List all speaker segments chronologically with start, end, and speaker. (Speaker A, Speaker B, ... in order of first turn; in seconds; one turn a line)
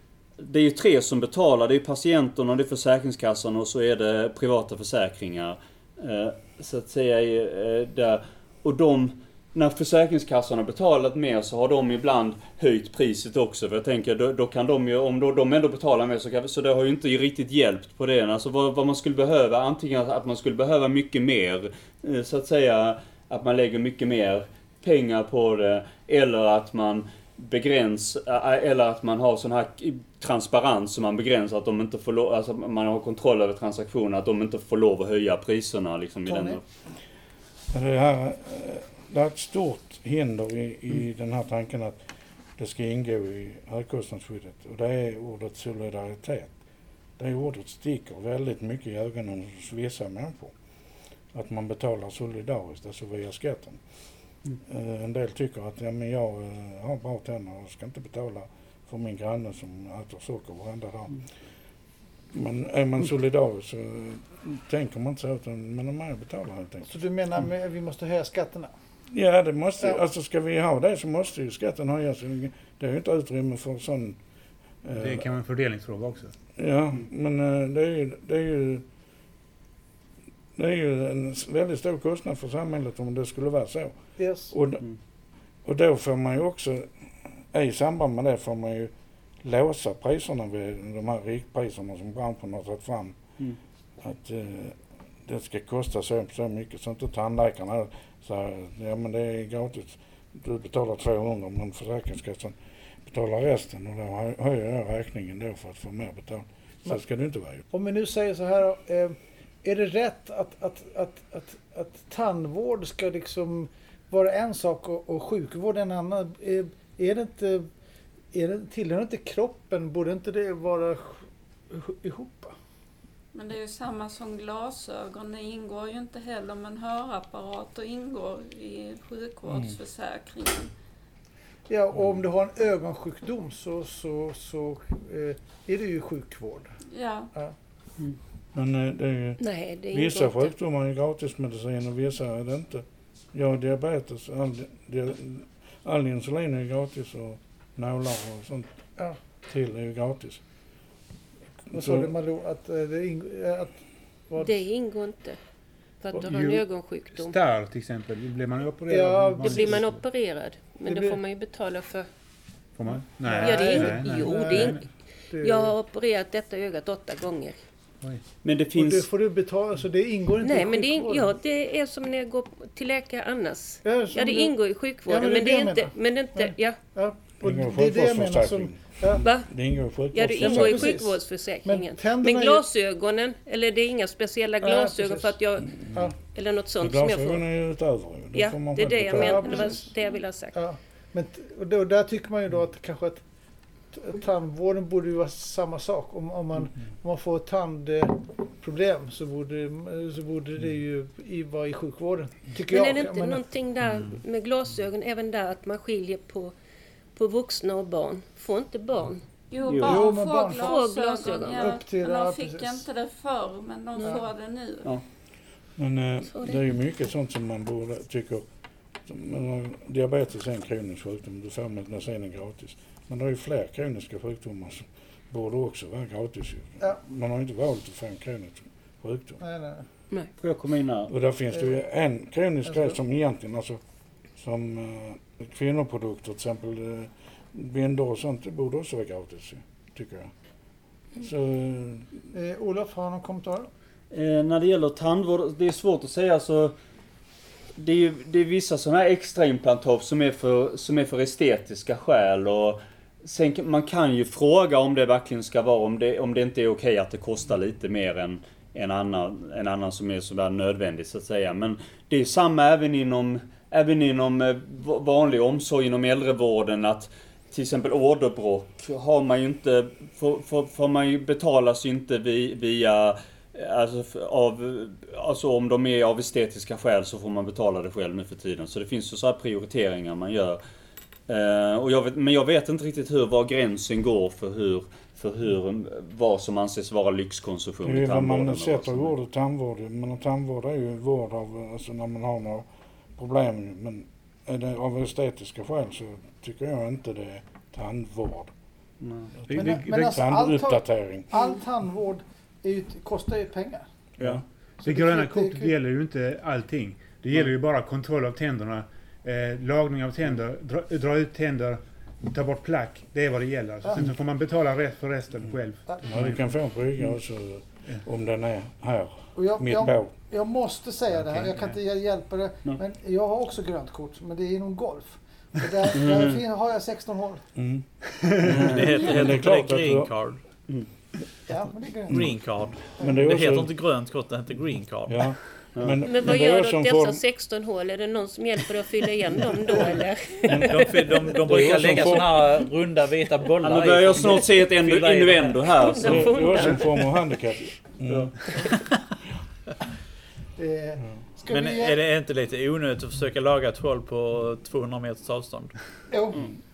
Speaker A: 0.4-36.6
Speaker B: 36.2-36.6
Speaker C: 37.7-42.0
Speaker C: 42.5-46.5
Speaker C: 47.2-50.5
Speaker C: 51.3-53.8
Speaker C: 54.6-61.2
Speaker C: 62.3-67.0
Speaker B: 66.9-68.7
Speaker C: 69.1-74.2
Speaker C: 74.8-75.3
Speaker D: 75.0-76.3
Speaker C: 76.5-78.8
Speaker C: 80.5-84.0
Speaker B: 84.2-84.5
Speaker C: 84.5-84.8
Speaker C: 85.6-93.2
Speaker C: 94.0-107.7
Speaker B: 107.7-117.7
Speaker B: 118.3-122.5
Speaker E: 123.3-130.7
Speaker B: 131.7-136.8
Speaker E: 136.9-137.3
Speaker C: 138.5-148.7
Speaker F: 139.4-140.5
Speaker C: 149.5-150.4
Speaker C: 151.7-152.1
Speaker B: 151.7-153.8
Speaker F: 154.4-155.4
Speaker F: 156.0-157.3
Speaker D: 156.2-156.6
Speaker D: 157.1-160.0
Speaker B: 158.9-159.8
Speaker F: 159.4-162.1
Speaker B: 160.8-161.2
Speaker D: 162.8-164.8
Speaker B: 162.9-165.7
Speaker F: 163.4-164.9
Speaker F: 165.4-167.6
Speaker A: 168.4-169.1
Speaker B: 168.7-171.3
Speaker F: 170.4-176.8
Speaker B: 173.8-179.2
Speaker C: 177.4-181.0
Speaker F: 179.2-179.5
Speaker F: 180.1-187.4
Speaker B: 180.4-182.6
Speaker B: 184.6-185.3
Speaker B: 185.9-186.1
Speaker C: 186.8-189.5
Speaker F: 188.3-190.6
Speaker B: 189.1-189.9
Speaker E: 189.4-189.8
Speaker B: 190.5-193.2
Speaker B: 193.9-203.4
Speaker F: 202.7-206.5
Speaker F: 207.1-209.3
Speaker E: 209.5-214.9
Speaker A: 209.7-210.1
Speaker B: 209.8-212.8
Speaker F: 210.5-211.8
Speaker F: 214.0-214.2
Speaker C: 215.8-218.4
Speaker F: 216.3-216.6
Speaker C: 219.0-229.4
Speaker B: 229.4-229.8
Speaker A: 230.4-231.1
Speaker C: 231.1-233.8
Speaker B: 232.7-232.9
Speaker C: 234.3-240.3
Speaker C: 241.2-242.2
Speaker B: 242.3-243.7
Speaker A: 244.1-246.7
Speaker A: 247.8-280.6
Speaker A: 281.3-289.1
Speaker C: 287.8-298.5
Speaker A: 299.0-299.3
Speaker C: 299.4-301.3
Speaker D: 299.5-300.2
Speaker B: 299.6-303.9
Speaker D: 304.8-316.5
Speaker B: 304.8-305.7
Speaker C: 316.1-320.1
Speaker B: 319.4-327.5
Speaker D: 321.2-321.8
Speaker A: 325.9-326.4
Speaker C: 327.5-327.9
Speaker C: 328.4-330.1
Speaker G: 328.6-330.4
Speaker B: 331.5-332.2
Speaker G: 332.1-335.3
Speaker C: 332.1-333.7
Speaker C: 335.1-337.2
Speaker A: 335.7-336.0
Speaker F: 336.0-341.3
Speaker C: 340.5-340.9
Speaker G: 340.6-345.8
Speaker C: 341.5-342.3
Speaker A: 341.5-342.2
Speaker A: 343.6-346.3
Speaker F: 345.7-347.1
Speaker C: 346.0-348.5
Speaker A: 348.0-348.4
Speaker B: 350.6-352.0
Speaker G: 351.5-355.8
Speaker B: 356.1-356.5